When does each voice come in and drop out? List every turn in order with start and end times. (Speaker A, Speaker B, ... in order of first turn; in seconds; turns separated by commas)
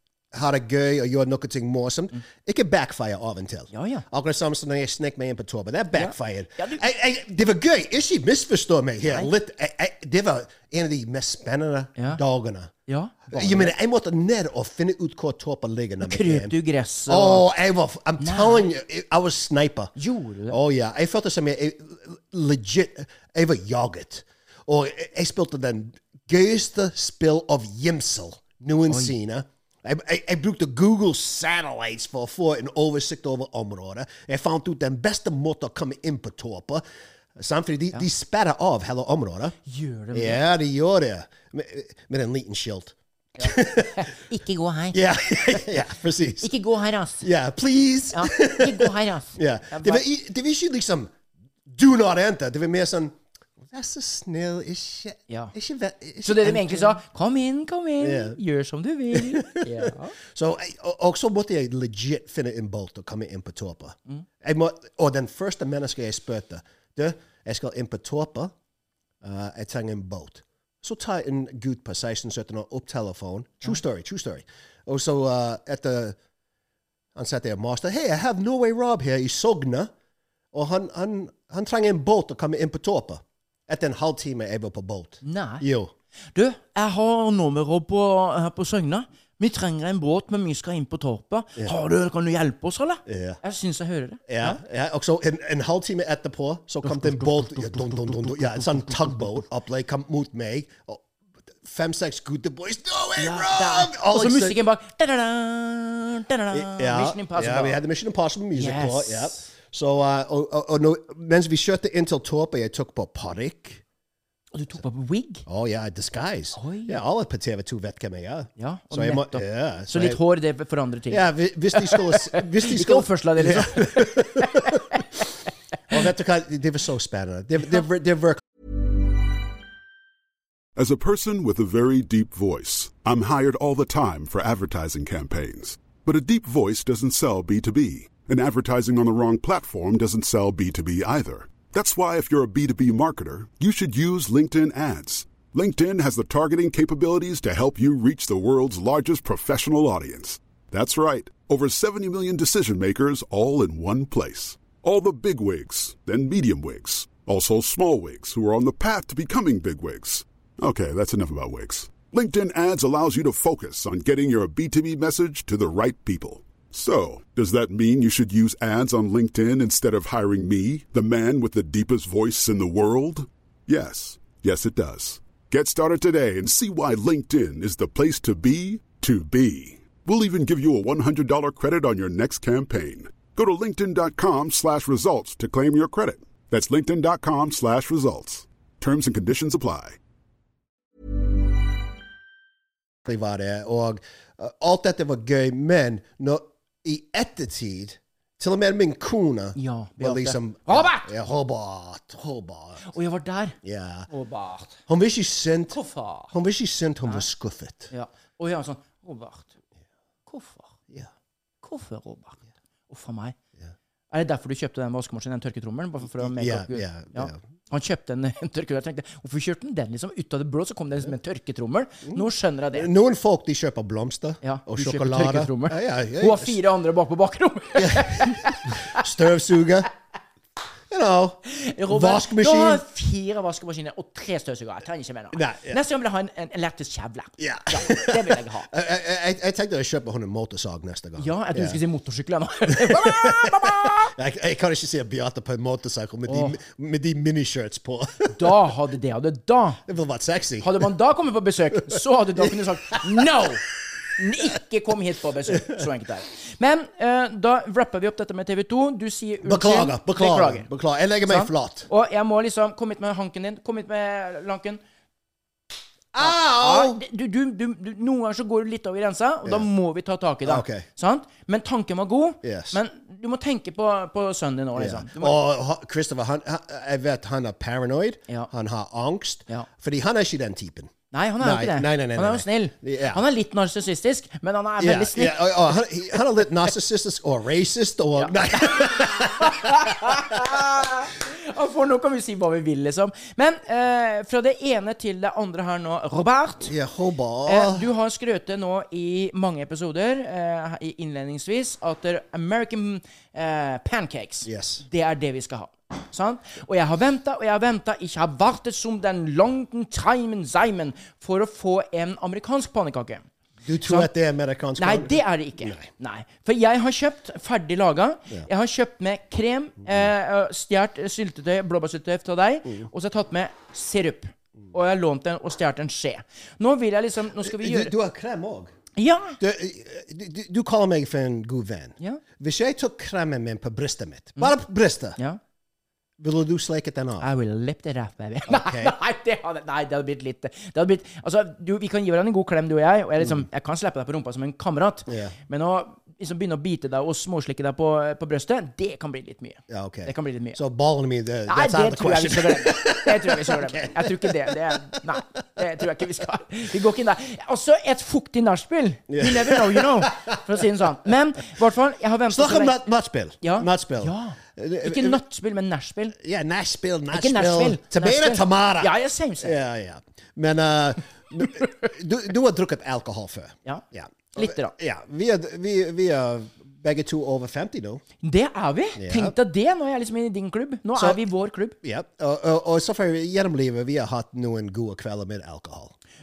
Speaker A: 0.3-12.7, Speaker B: 3.7-4.0, Speaker B: 5.9-6.8, Speaker B: 12.9-13.7, Speaker A: 13.3-16.5, Speaker B: 16.0-17.5, Speaker A: 17.1-19.9, Speaker B: 18.2-18.7, Speaker B: 19.9-20.6, Speaker A: 20.5-36.8, Speaker B: 28.9-29.1, Speaker A: 37.4-39.5, Speaker B: 39.6-40.4, Speaker A: 40.1-44.0, Speaker B: 43.4-45.7, Speaker A: 44.9-46.5, Speaker B: 46.4-47.2, Speaker A: 47.2-51.1, Speaker B: 48.1-50.0, Speaker A: 51.7-57.0, Speaker B: 56.2-60.1, Speaker A: 58.0-58.4, Speaker A: 59.1-68.5, Speaker A: 69.2-76.2, Speaker A: 77.1-79.9, Speaker A: 80.5-85.9, Speaker B: 85.2-85.6, Speaker B: 86.3-94.6, Speaker A: 93.0-93.4, Speaker A: 94.3-101.0, Speaker A: 101.6-104.6, Speaker B: 103.2-107.8, Speaker A: 106.5-113.8, Speaker B: 108.5-109.5, Speaker B: 114.5-115.4, Speaker A: 115.5-120.2, Speaker B: 116.5-117.0, Speaker B: 118.6-125.2, Speaker A: 121.1-124.8, Speaker A: 125.9-128.4, Speaker C: 130.8-190.0, Speaker A: 193.0-202.9, Speaker B: 199.6-201.1, Speaker B: 202.8-203.6, Speaker A: 203.6-204.1, Speaker B: 204.1-204.8, Speaker A: 204.9-207.9, Speaker B: 205.7-206.3, Speaker B: 207.9-209.5, Speaker B: 210.3-210.7, Speaker B: 211.6-213.4, Speaker B: 214.1-222.9, Speaker A: 216.1-217.4, Speaker A: 222.1-226.6, Speaker B: 224.4-229.0, Speaker A: 227.8-229.9, Speaker A: 230.9-232.8, Speaker B: 231.5-238.7, Speaker A: 235.3-235.8, Speaker A: 237.4-241.8, Speaker B: 241.2-244.1, Speaker A: 242.7-248.5, Speaker B: 246.3-246.6, Speaker B: 248.3-249.8, Speaker A: 249.8-250.9, Speaker B: 250.6-253.6, Speaker A: 251.8-253.4, Speaker B: 254.2-260.7, Speaker A: 255.5-255.8, Speaker A: 259.4-261.9, Speaker B: 261.3-264.8, Speaker A: 266.1-267.0, Speaker B: 266.2-275.4, Speaker A: 270.4-270.9, Speaker A: 272.4-272.8, Speaker A: 274.8-283.2, Speaker B: 281.1-285.4, Speaker A: 284.8-290.6, Speaker B: 288.1-296.7, Speaker A: 296.6-297.9, Speaker B: 297.4-313.3, Speaker A: 304.4-304.8, Speaker A: 313.6-315.9, Speaker B: 313.8-314.1, Speaker B: 314.8-327.9, Speaker A: 327.4-328.7, Speaker B: 328.9-329.4, Speaker A: 329.4-335.2, Speaker A: 336.2-337.3, Speaker B: 337.2-350.6, Speaker A: 338.5-338.9, Speaker A: 345.1-345.4, Speaker A: 349.7-355.1, Speaker B: 351.5-362.8, Speaker A: 359.1-360.4, Speaker A: 362.3-365.2, Speaker B: 363.4-366.1, Speaker A: 366.1-378.0, Speaker B: 367.1-369.6, Speaker B: 373.6-374.7, Speaker B: 378.2-381.8, Speaker A: 379.0-379.3, Speaker A: 381.8-385.9